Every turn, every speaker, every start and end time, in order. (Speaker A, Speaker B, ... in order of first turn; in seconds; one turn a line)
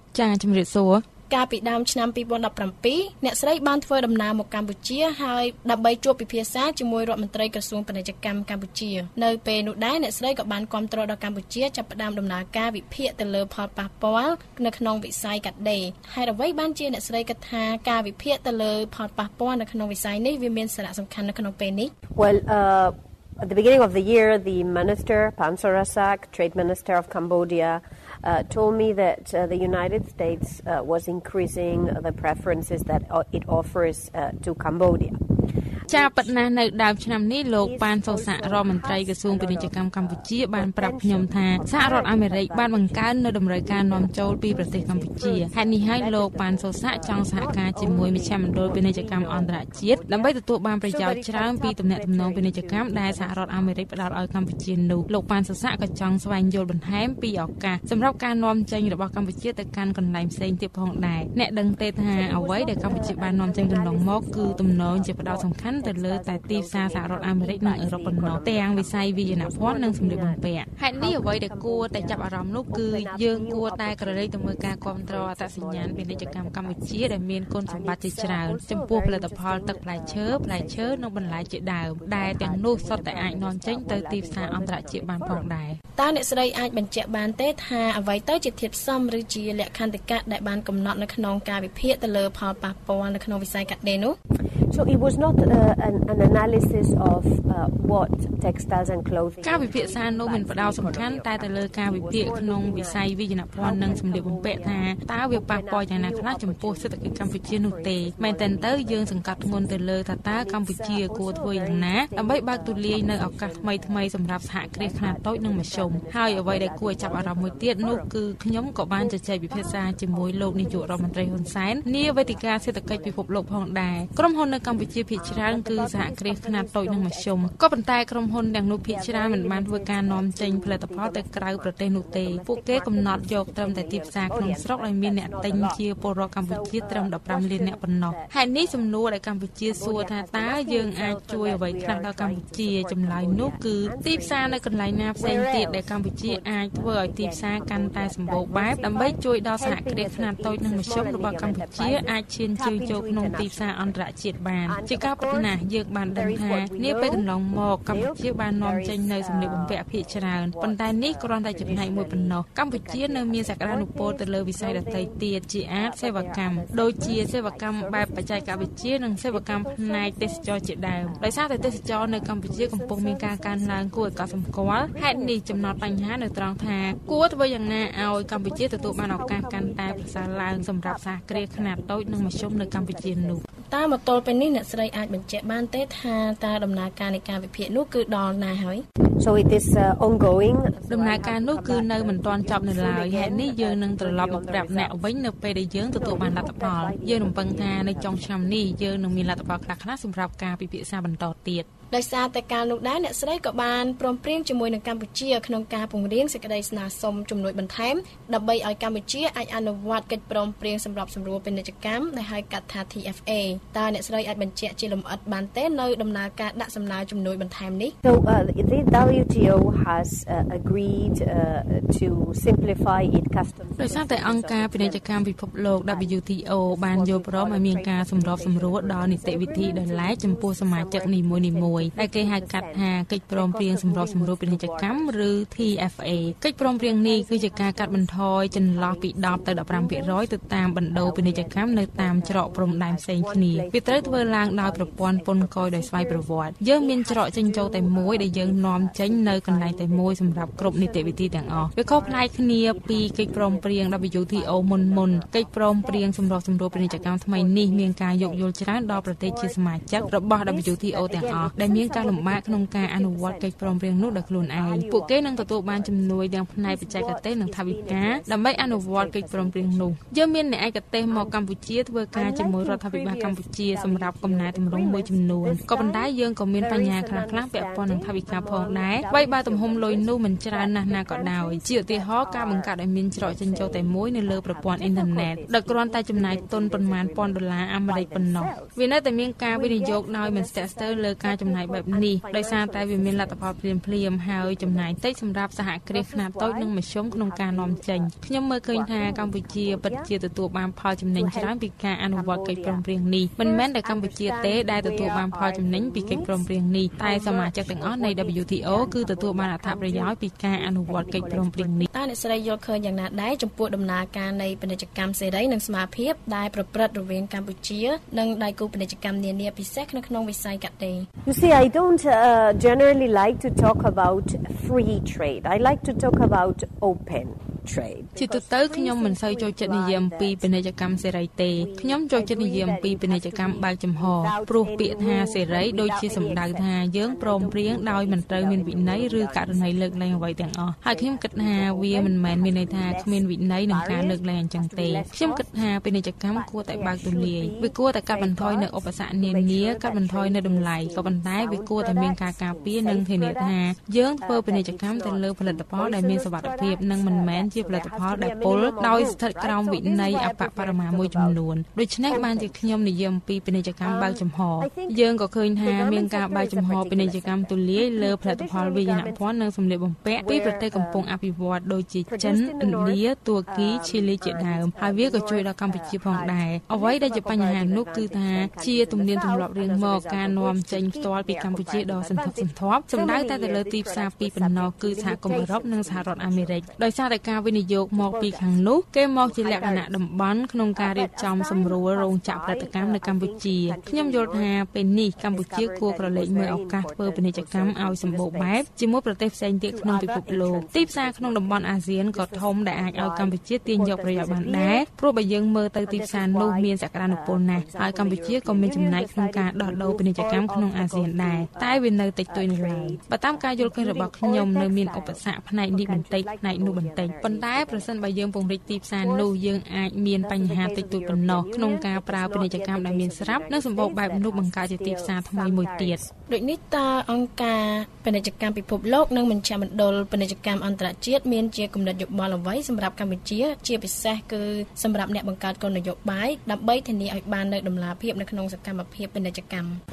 Speaker A: 0.1-1.1
Speaker B: 1.3-21.9
Speaker C: 22.1-35.2
Speaker C: 35.8-36.4
Speaker A: 35.9-85.8
Speaker C: 37.5-43.1
Speaker C: 43.6-53.9
Speaker C: 62.1-70.4
Speaker C: 71.0-85.5
Speaker B: 86.0-94.2
Speaker C: 94.7-118.1
Speaker A: 99.4-183.4
Speaker C: 119.0-123.4
Speaker C: 125.1-127.5
Speaker C: 128.9-135.9
Speaker C: 136.4-138.9
Speaker C: 139.6-154.0
Speaker C: 154.7-155.6
Speaker C: 156.1-157.3
Speaker C: 157.9-183.4
Speaker B: 183.7-188.8
Speaker C: 189.2-195.0
Speaker A: 190.9-201.7
Speaker C: 195.8-198.8
Speaker B: 201.9-217.9
Speaker C: 218.0-225.3
Speaker A: 223.8-311.9
Speaker C: 225.8-240.2
Speaker C: 240.9-270.3
Speaker C: 271.1-271.4
Speaker C: 272.1-288.8
Speaker C: 289.5-293.6
Speaker C: 294.3-295.1
Speaker C: 295.9-300.1
Speaker C: 301.1-301.6
Speaker C: 302.1-302.9
Speaker C: 303.4-311.9
Speaker B: 311.9-321.1
Speaker C: 321.2-330.5
Speaker A: 328.2-426.0
Speaker C: 331.4-340.3
Speaker C: 340.9-345.7
Speaker C: 346.3-361.4
Speaker C: 362.1-362.9
Speaker C: 363.8-365.0
Speaker C: 365.6-369.3
Speaker C: 370.2-371.1
Speaker C: 372.1-386.9
Speaker C: 387.9-388.7
Speaker C: 389.2-390.0
Speaker C: 390.8-394.6
Speaker C: 395.2-398.7
Speaker C: 399.7-404.9
Speaker C: 405.9-418.1
Speaker C: 418.7-419.4
Speaker C: 420.2-426.1
Speaker B: 426.3-439.8